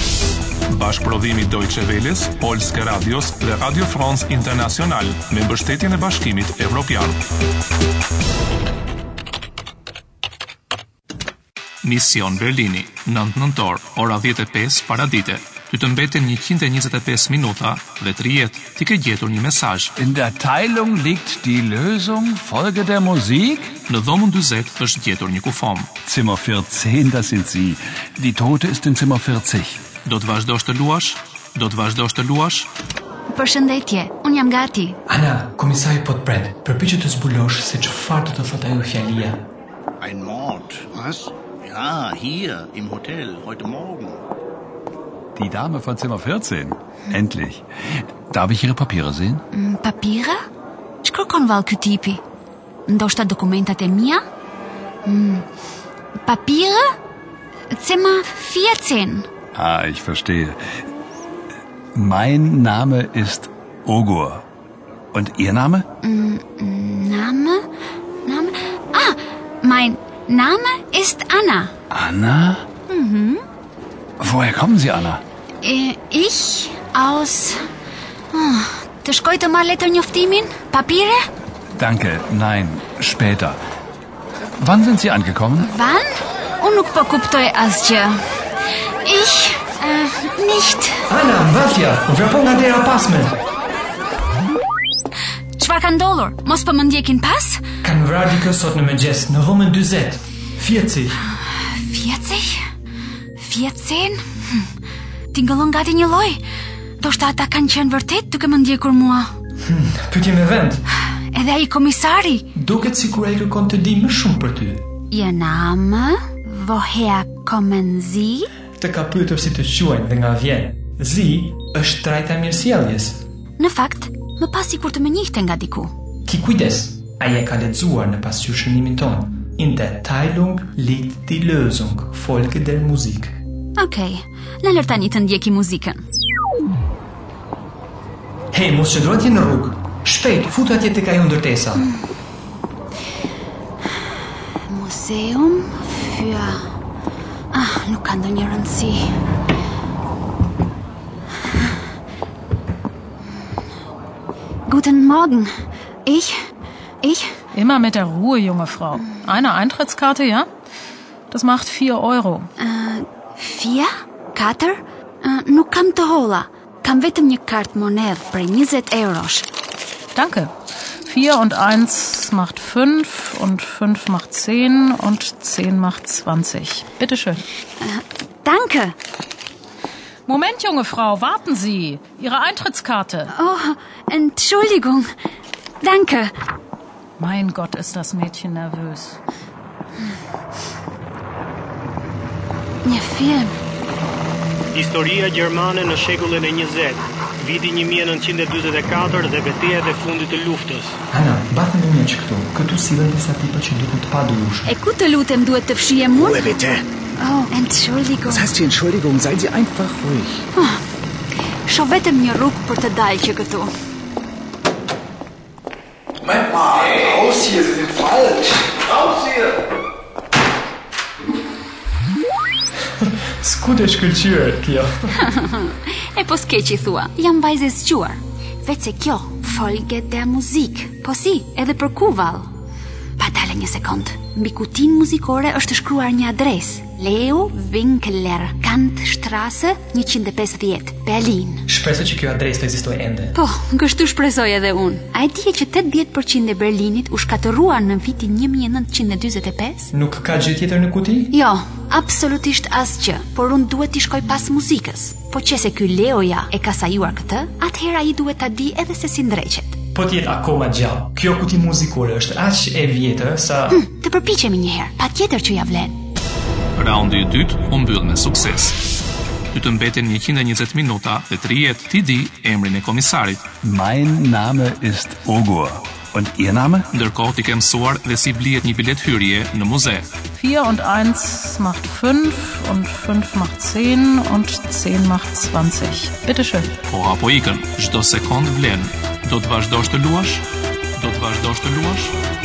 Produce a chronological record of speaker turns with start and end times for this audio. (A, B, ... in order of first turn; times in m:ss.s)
0:00.7-0:07.2 A
0:11.8-0:19.9 A
0:20.0-0:23.7 B
0:23.9-0:25.9 A
0:26.0-0:29.8 B
0:30.0-0:32.7 A
0:33.3-0:35.0 C
0:35.1-0:39.4 D
0:40.0-0:44.2 E
0:45.4-0:49.4 B
0:49.5-0:50.4 C
0:51.0-0:52.2 C
0:52.9-0:54.2 C
0:55.0-0:55.4 C
0:56.2-0:56.8 C
0:57.7-0:59.3 C
0:59.5-1:00.6 B
1:01.9-1:04.4 B
1:05.1-1:05.8 B
1:06.0-1:07.6 C
1:08.2-1:11.7 C
1:11.9-1:12.6 B
1:12.9-1:13.4 C
1:14.2-1:15.2 B
1:15.6-1:17.6 C
1:18.3-1:21.2 C
1:21.7-1:23.6 B
1:24.6-1:25.7 B
1:25.6-1:26.1 C
1:26.6-1:28.2 C
1:29.0-1:31.0 C
1:31.1-1:33.4 D
1:35.6-1:37.6 C
1:37.8-1:41.2 D
1:41.7-1:42.6 C
1:43.4-1:44.2 C
1:45.3-1:46.4 C
1:47.0-1:49.3 C
1:49.6-1:50.8 D
1:51.3-1:52.5 C
1:52.5-1:54.8 D
1:55.1-1:58.5 C
1:58.8-2:03.2 D
2:03.6-2:05.9 C
2:06.3-2:13.3 D
2:13.8-2:16.0 C
2:18.5-2:21.8 D
2:24.7-2:26.6 C
2:27.5-2:29.0 C
2:34.6-2:35.5 C
2:36.0-2:36.3 C
2:37.0-2:37.4 C
2:37.5-2:40.5 F
2:41.3-2:42.5 F
2:42.6-2:49.5 C
2:50.1-2:50.5 F
2:51.1-2:57.4 F
2:57.8-2:58.9 C
3:00.3-3:03.3 F
3:03.3-3:05.1 C
3:05.8-3:06.3 C
3:07.2-3:09.2 F
3:12.8-3:13.5 C
3:14.7-3:21.0 G
3:21.1-3:24.7 D
3:24.6-3:26.5 C
3:26.2-3:26.8 H
3:27.2-3:28.5 C
3:28.3-3:30.4 H
3:30.5-3:30.8 C
3:31.6-3:33.7 C
3:36.3-3:39.4 B
3:43.0-3:44.9 D
3:45.2-3:52.5 C
3:53.2-4:01.7 C
4:01.7-4:03.3 D
4:03.3-4:09.9 C
4:09.9-4:11.3 D
4:11.3-4:19.8 C
4:19.9-4:23.8 D
4:23.7-4:26.0 C
4:26.8-4:28.8 A
4:29.5-4:33.4 A
4:33.6-4:36.9 B
4:36.9-4:40.1 A
4:40.3-4:46.7 F
4:46.9-4:50.4 A
4:51.0-4:52.1 A